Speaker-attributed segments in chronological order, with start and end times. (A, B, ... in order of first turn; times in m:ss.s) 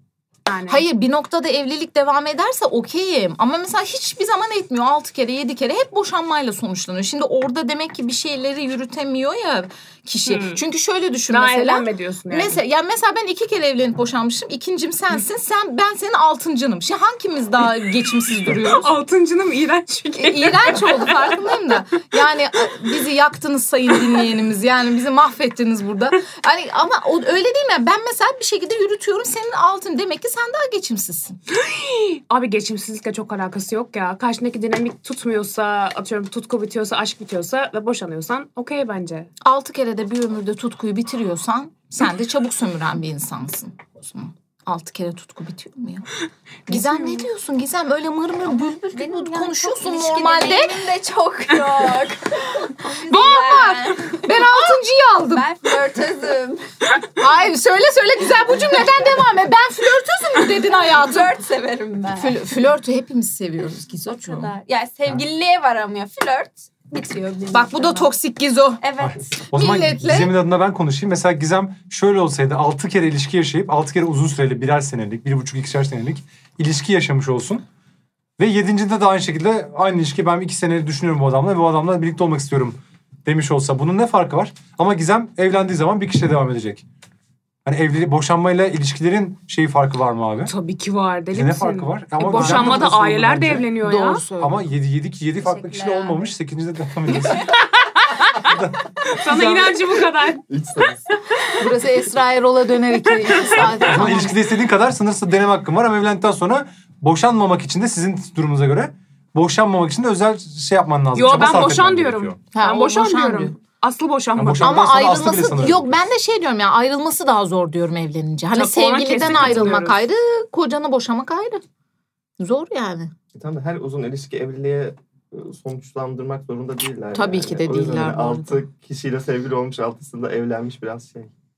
0:00.5-0:00.8 A
0:00.7-0:18.9 B
0:10.3-0:10.6 A
0:11.3-0:12.6 A
0:18.5-0:21.4 A
0:20.2-0:31.4 B
0:31.5-0:39.3 A
0:39.4-0:46.1 B
0:46.7-0:50.8 B
0:46.7-0:47.2 A
0:48.9-0:54.7 C
0:53.1-0:55.5 B
0:55.3-0:56.6 C
0:57.2-1:01.4 B
1:00.7-1:02.4 C
1:02.2-1:04.5 B
1:04.1-1:08.1 C
1:07.5-1:08.8 B
1:08.8-1:09.4 C
1:09.0-1:17.6 D
1:09.5-1:10.3 B
1:18.4-1:26.8 D
1:27.6-1:30.5 D
1:30.5-1:34.2 A
1:31.3-1:33.6 D
1:32.2-1:34.6 B
1:34.4-1:37.5 D
1:35.4-1:36.2 C
1:37.5-1:38.5 A
1:38.4-1:38.8 D
1:39.1-1:40.4 A
1:39.3-1:39.7 B
1:40.5-1:41.1 E
1:41.5-1:44.4 B
1:43.3-1:43.7 A
1:43.8-1:52.4 D
1:51.2-1:54.9 A
1:52.5-1:53.6 B
1:54.4-1:56.0 D
1:54.6-2:01.6 B
1:58.5-2:00.0 A
2:02.4-2:03.1 B
2:03.3-2:11.3 E
2:07.1-2:08.6 B